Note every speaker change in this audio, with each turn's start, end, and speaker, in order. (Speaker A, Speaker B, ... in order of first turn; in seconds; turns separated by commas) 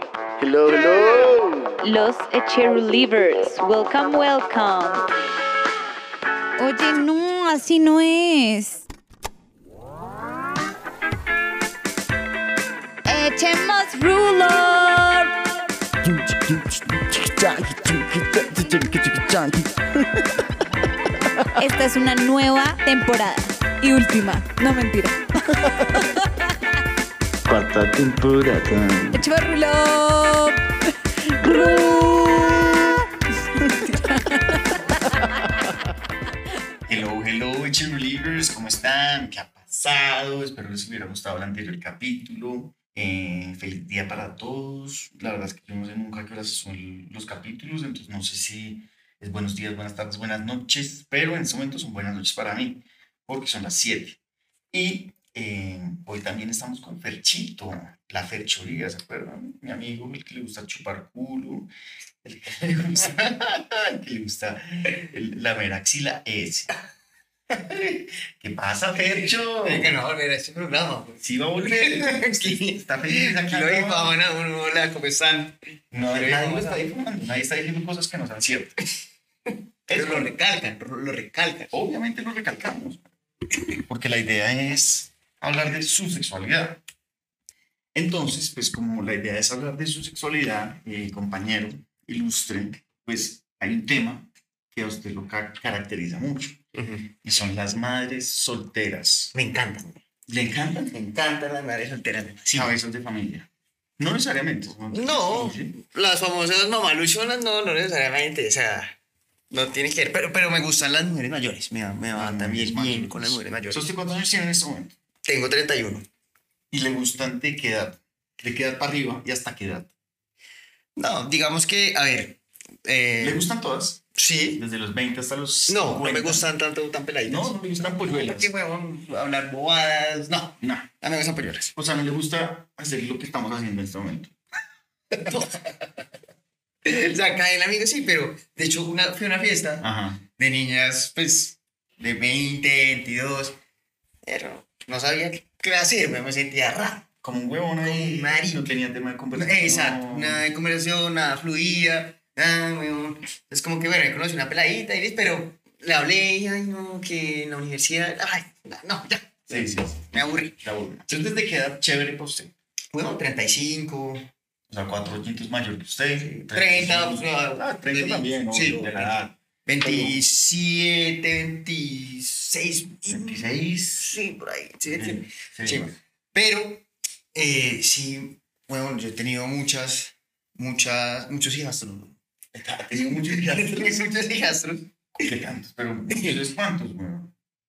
Speaker A: 0.4-1.5, Speaker B: 1.8-5.1, Speaker B: 6.6-8.8, Speaker B: 13.1-15.3, Speaker A: 16.0-20.4, Speaker A: 21.2-21.5, Speaker B: 21.6-26.5, Speaker A: 27.5-29.2, Speaker B: 29.1-30.6, Speaker B: 31.3-32.6, Speaker B: 33.6-35.4, Speaker A: 36.9-54.2, Speaker A: 54.7-61.7, Speaker A: 62.2-66.7, Speaker A: 67.5-69.9, Speaker C: 69.6-76.8, Speaker A: 71.2-74.2, Speaker A: 75.9-78.8, Speaker A: 79.9-80.3, Speaker C: 79.9-81.7, Speaker A: 81.7-83.0, Speaker A: 83.9-86.8, Speaker A: 87.9-96.6, Speaker C: 96.7-97.1, Speaker A: 97.2-99.3, Speaker C: 99.3-100.0, Speaker A: 100.3-100.9, Speaker C: 100.9-102.8, Speaker A: 102.5-103.5, Speaker A: 104.0-105.7, Speaker C: 104.9-109.0, Speaker C: 109.5-113.8, Speaker A: 112.1-114.9, Speaker C: 115.2-116.1, Speaker A: 116.7-119.9, Speaker C: 121.0-123.5, Speaker A: 123.2-124.0, Speaker C: 124.2-124.6, Speaker A: 124.5-126.5, Speaker C: 125.7-131.7, Speaker A: 127.2-128.5, Speaker A: 130.6-130.9, Speaker A: 131.7-134.3, Speaker C: 135.2-135.9, Speaker C: 136.8-143.6, Speaker A: 139.8-140.2, Speaker C: 144.2-147.1, Speaker A: 147.2-150.5, Speaker C: 147.8-148.7, Speaker C: 149.3-160.6, Speaker A: 159.5-162.5, Speaker C: 162.9-164.3, Speaker A: 164.7-170.2, Speaker C: 166.2-182.2, Speaker A: 173.1-174.1, Speaker A: 174.9-175.9, Speaker A: 182.5-184.2, Speaker C: 182.9-185.3, Speaker A: 185.1-187.3, Speaker C: 186.1-186.4